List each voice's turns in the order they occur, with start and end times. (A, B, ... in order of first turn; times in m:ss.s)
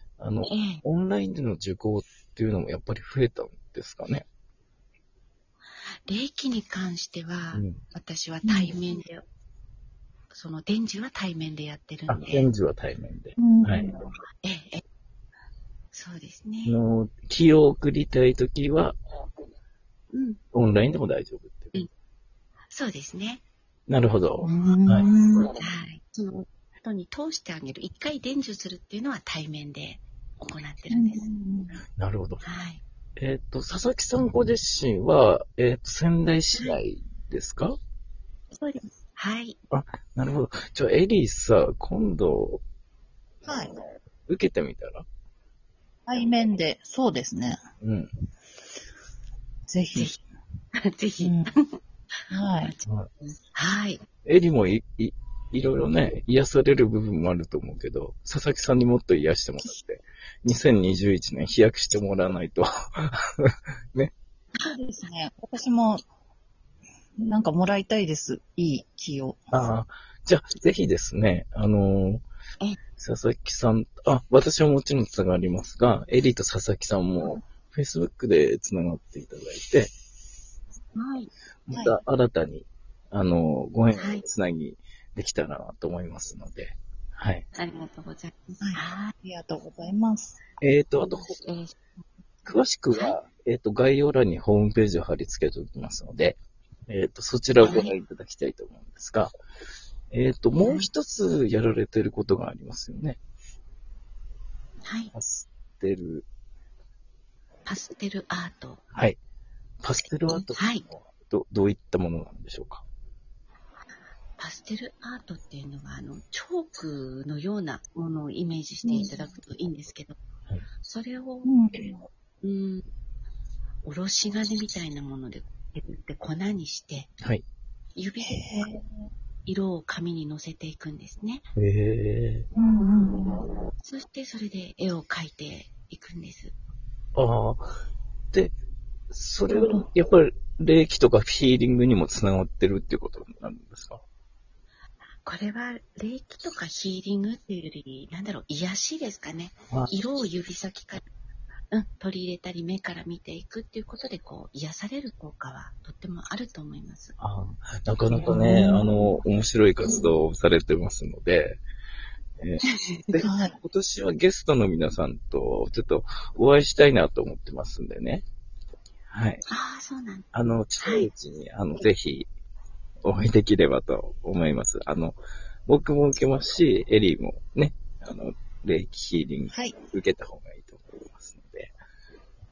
0:00.2-0:04.2 A
0:00.4-0:00.8 B
0:06.1-0:09.2 B
0:07.5-0:07.8 A
0:08.4-0:08.8 C
0:10.3-0:12.5 B
0:12.1-0:13.9 A
0:13.4-0:14.0 C
0:14.4-0:14.8 B
0:15.9-0:16.8 B
0:16.6-0:19.0 A
0:20.1-0:20.4 B
0:20.5-0:21.7 A
0:22.7-0:23.4 B
0:23.9-0:25.1 A
0:24.4-0:25.5 C
0:25.5-0:31.2 B
0:30.9-0:31.8 C
0:32.0-0:32.4 A
0:32.4-0:32.8 B
0:33.2-0:37.8 A
0:38.5-0:39.6 B
0:39.7-0:42.6 A
0:43.4-0:43.7 C
0:44.3-0:45.0 A
0:46.1-0:47.6 C
0:47.8-0:48.1 A
0:49.7-0:50.1 C
0:50.7-0:51.8 B
0:51.2-0:51.5 C
0:52.3-0:52.7 C
0:52.5-0:54.0 B
0:54.2-1:04.1 A
1:04.6-1:06.0 C
1:07.2-1:09.5 C
1:09.5-1:12.2 A
1:13.0-1:19.9 A
1:20.9-1:21.3 B
1:21.6-1:27.4 A
1:23.9-1:24.2 B
1:27.5-1:29.1 B
1:28.6-1:30.4 C
1:30.6-1:31.4 A
1:31.0-1:31.8 B
1:32.4-1:39.3 A
1:32.9-1:33.2 B
1:37.6-1:37.9 B
1:40.1-1:43.2 A
1:40.6-1:40.9 B
1:44.8-1:45.1 B
1:45.1-1:46.2 A
1:47.6-1:48.8 B
1:48.9-1:49.2 A
1:49.8-1:52.8 A
1:50.3-1:50.8 B
1:54.4-2:00.2 B
1:58.8-1:59.1 C
2:00.8-2:01.6 B
2:01.4-2:02.0 C
2:02.4-2:02.8 B
2:03.8-2:07.1 B
2:08.0-2:08.4 B
2:08.2-2:08.9 C
2:09.4-2:11.4 B
2:11.6-2:12.5 A
2:12.5-2:13.4 C
2:13.8-2:16.5 B
2:17.2-2:17.7 A
2:19.1-2:24.0 A
2:25.2-2:31.0 B
2:31.7-2:37.1 B
2:37.2-2:41.6 A
2:38.2-2:38.9 C
2:42.4-2:48.2 A
2:42.6-2:43.2 B
2:43.2-2:43.6 C
2:49.1-2:49.4 A
2:49.5-2:50.3 B
2:50.3-2:52.3 A
2:50.8-2:51.1 B
2:53.0-2:55.2 A
2:55.7-3:01.7 A